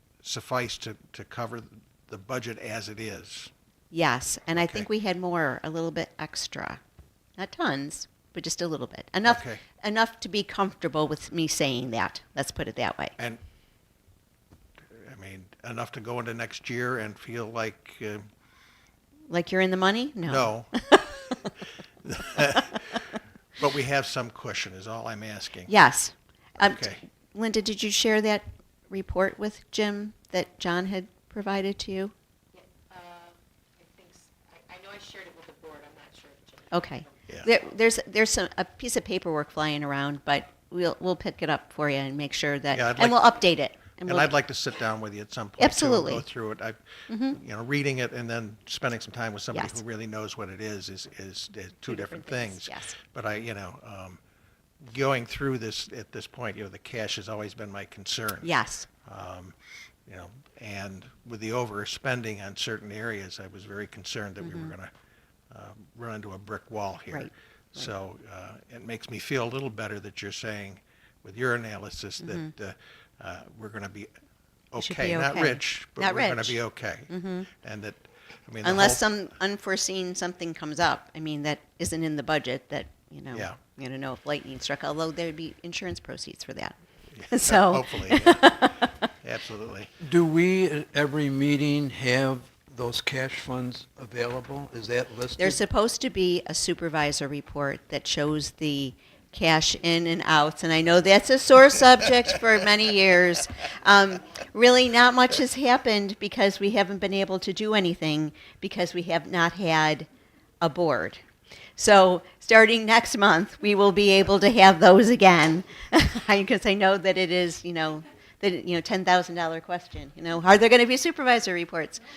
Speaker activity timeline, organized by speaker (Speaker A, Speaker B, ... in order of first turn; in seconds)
Speaker A: 0.2-3.5, 4.5-4.9, 9.2-9.6, 14.9-18.3, 20.2-20.8, 22.0-23.0, 23.6-25.7, 26.6-27.0, 42.7-43.4, 44.0-54.2, 54.8-58.5, 59.0-64.9, 65.5-74.1, 74.7-79.0, 83.3-83.6, 87.1-89.9
Speaker B: 3.9-6.8, 7.4-13.2, 19.3-21.5, 25.7-32.1, 36.7-44.3, 45.6-46.2, 47.1-47.4, 49.5-49.8, 51.9-53.0, 58.4-58.9, 64.4-64.7, 67.1-67.9, 72.2-72.5, 74.8-76.6, 77.1-77.5, 78.6-86.8, 87.3-89.1, 95.4-110.1, 110.6-111.2, 111.8-122.0
Speaker C: 32.5-37.1
Speaker D: 90.0-95.6